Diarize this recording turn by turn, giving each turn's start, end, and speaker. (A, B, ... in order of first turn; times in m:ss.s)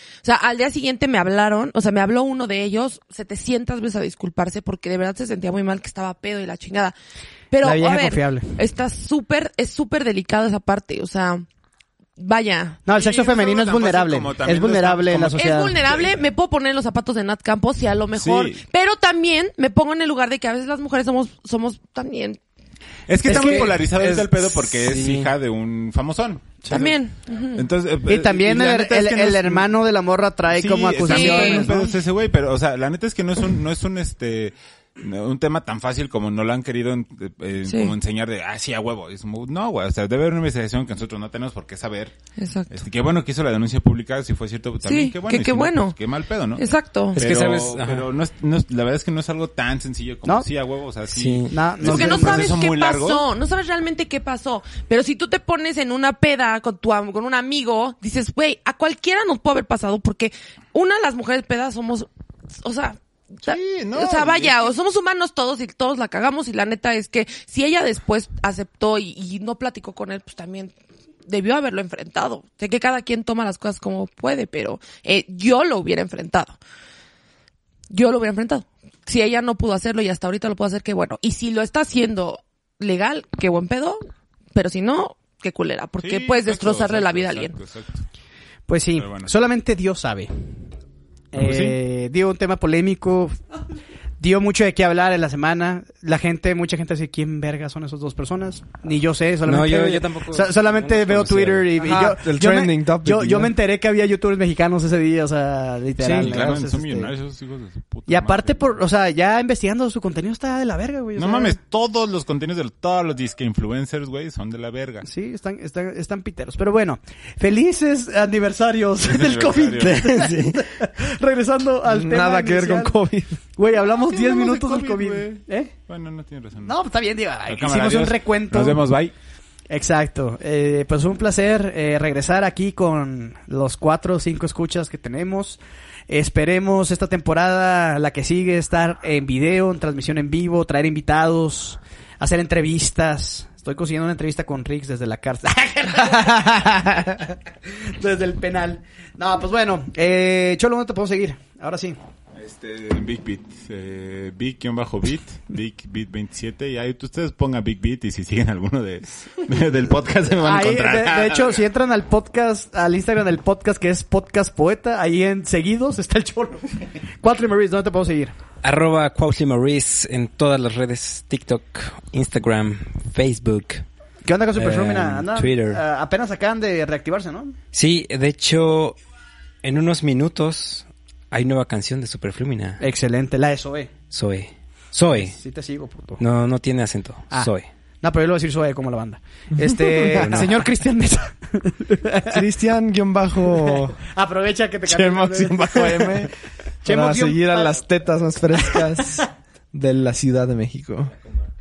0:00.2-0:06.9 A
0:07.5-0:11.5 A
0:07.6-0:08.6 B
0:12.2-0:12.8 A
0:12.9-0:15.8 B
0:12.9-0:16.2 C
0:15.3-0:22.4 A
0:18.1-0:18.6 C
0:23.1-0:26.9 C
0:23.2-0:25.3 D
0:23.4-0:23.7 B
0:26.7-0:27.7 A
0:27.6-0:29.7 C
0:28.1-0:32.0 B
0:30.5-0:42.1 C
0:31.0-0:31.7 A
0:37.6-0:37.9 A
0:42.4-0:42.7 A
0:42.7-0:53.2 C
0:44.8-0:46.0 A
0:46.6-0:47.2 A
0:47.2-0:48.1 D
0:51.1-0:51.5 D
0:51.5-0:52.5 B
0:51.8-1:02.1 A
1:02.6-1:10.7 A
1:03.4-1:04.7 C
1:11.3-1:16.6 A
1:17.9-1:27.6 A
1:26.0-1:28.0 C
1:28.7-1:30.5 B
1:29.0-1:29.3 C
1:31.3-1:33.4 B
1:31.4-1:31.8 C
1:34.2-1:47.1 B
1:39.5-1:41.9 D
1:41.8-1:43.5 E
1:46.0-1:46.6 E
1:46.0-1:48.8 C
1:48.1-1:51.6 B
1:51.2-1:55.1 C
1:55.0-2:02.9 B
1:59.0-2:00.3 C
1:59.8-2:00.6 D
2:01.8-2:03.4 E
2:03.6-2:05.7 B
2:03.7-2:06.8 C
2:06.6-2:08.8 B
2:07.5-2:09.1 C
2:09.7-2:32.0 B
2:32.4-2:41.6 C
2:40.4-2:48.3 B
2:48.6-2:53.8 D
2:54.2-2:57.6 B
2:54.6-2:55.8 D
2:57.7-2:59.0 D
2:59.6-3:02.8 D
3:02.8-3:03.9 B
3:04.1-3:05.4 D
3:05.2-3:06.2 B
3:06.2-3:07.7 D
3:08.0-3:12.4 B
3:09.8-3:10.4 E
3:10.1-3:10.5 D
3:12.3-3:14.0 E
3:13.6-3:16.3 B
3:14.9-3:16.3 E
3:16.8-3:17.8 B
3:16.8-3:21.2 E
3:18.8-3:19.2 B